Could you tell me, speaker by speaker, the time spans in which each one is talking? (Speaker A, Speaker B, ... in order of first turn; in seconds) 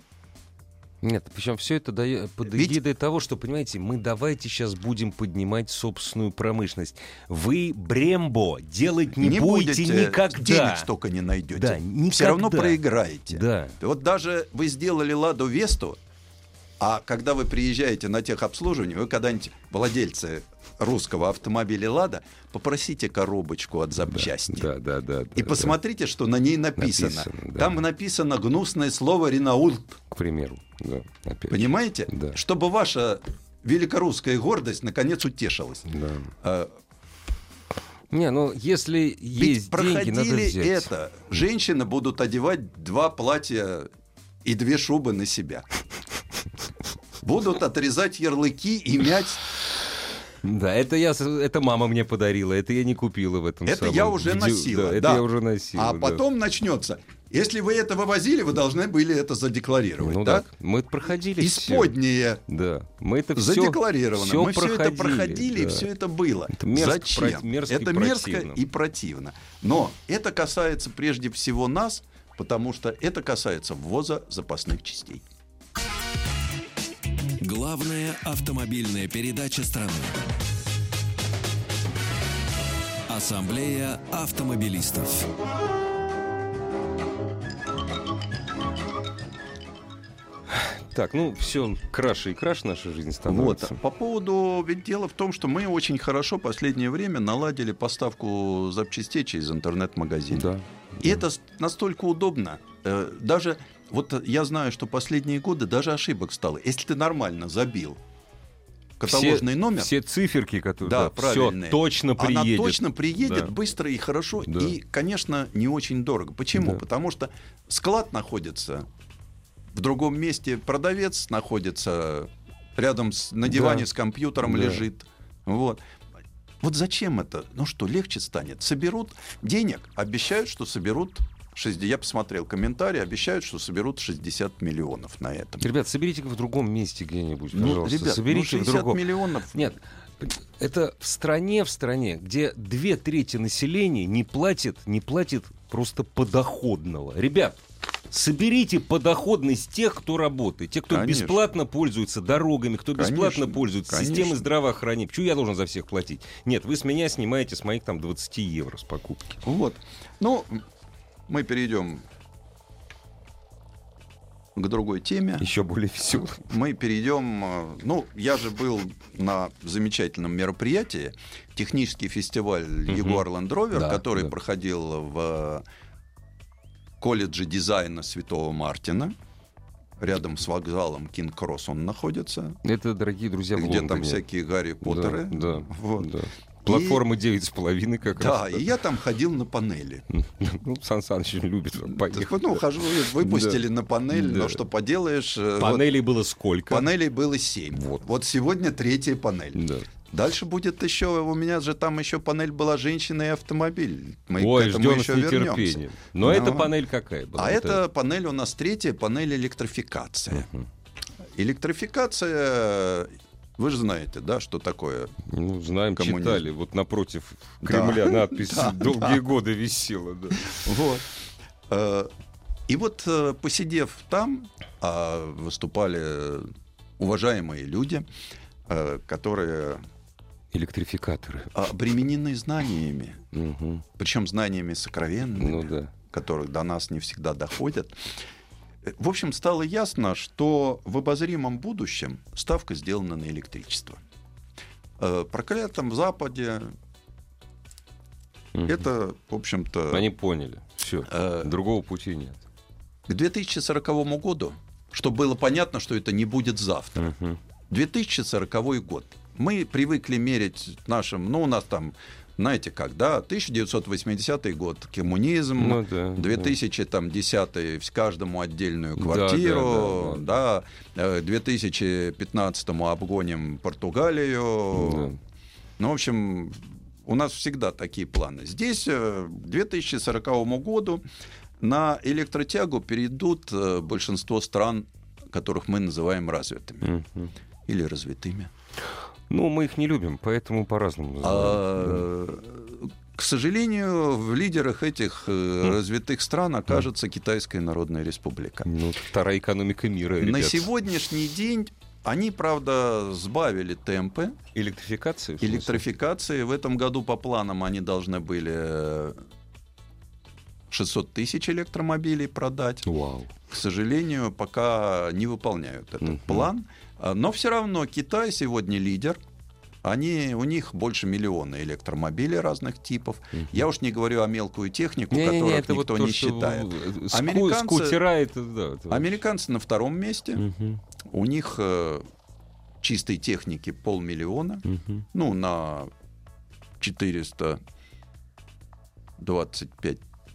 Speaker A: 1.0-10.9, 11.5-13.8, 24.1-25.8, 26.8-27.8, 30.1-32.4, 35.9-36.3, 38.1-40.9, 50.4-56.2, 60.0-61.9, 62.5-65.9, 66.5-68.6, 90.5-93.8, 100.3-101.2, 109.0-113.5, 114.5-114.8, 123.5-123.9, 124.4-124.8, 135.6-147.6, 148.1-159.4, 165.4-166.5, 172.9-174.3, 182.6-184.2, 184.8-188.7, 190.1-194.6, 195.6-196.9, 197.8-198.0, 199.6-199.9, 204.4-207.8, 210.3-210.7, 215.3-220.6, 230.5-231.5, 233.3-233.8, 235.4-235.9, 248.6-248.9, 249.9-252.4, 257.0-257.4, 265.6-266.6, 269.0-270.3, 274.7-275.2, 286.8-287.3, 289.3-292.1, 298.7-300.7, 304.6-305.8, 312.9-313.3, 316.0-316.5, 325.1-329.2, 330.4-330.8, 334.7-335.1
Speaker B: 2.4-2.8, 9.2-16.0, 16.8-24.7, 25.4-30.0, 31.5-35.9, 36.4-36.7, 39.4-43.9, 44.4-45.7, 47.2-49.5, 53.7-60.5, 61.4-62.4, 63.4-75.3, 93.3-100.5, 101.0-108.0, 109.0-109.9, 110.8-118.9, 119.7-125.8, 126.6-135.7, 137.5-139.7, 150.9-151.4, 152.9-154.5, 159.4-160.6, 161.3-162.1, 164.6-165.5, 166.5-175.7, 177.0-179.2, 180.0-182.6, 183.6-186.1, 186.7-187.0, 188.1-190.1, 191.9-195.8, 196.7-206.7, 207.3-210.5, 211.4-215.1, 216.0-216.4, 217.6-219.2, 220.5-221.1, 221.7-222.1, 222.7-228.1, 228.7-229.8, 231.5-233.2, 234.0-238.1, 238.8-244.0, 245.0-246.7, 248.7-250.1, 251.1-251.5, 253.1-257.1, 257.7-275.1, 275.8-281.0, 281.6-286.9, 287.7-288.5, 291.2-298.7, 300.2-304.4, 305.4-309.2, 310.7-312.9, 313.5-319.2, 319.8-328.0, 328.9-330.4, 331.1-332.1, 332.8-335.9, 336.8-337.6, 339.2-340.0
Speaker C: 77.4-80.2, 83.1-85.3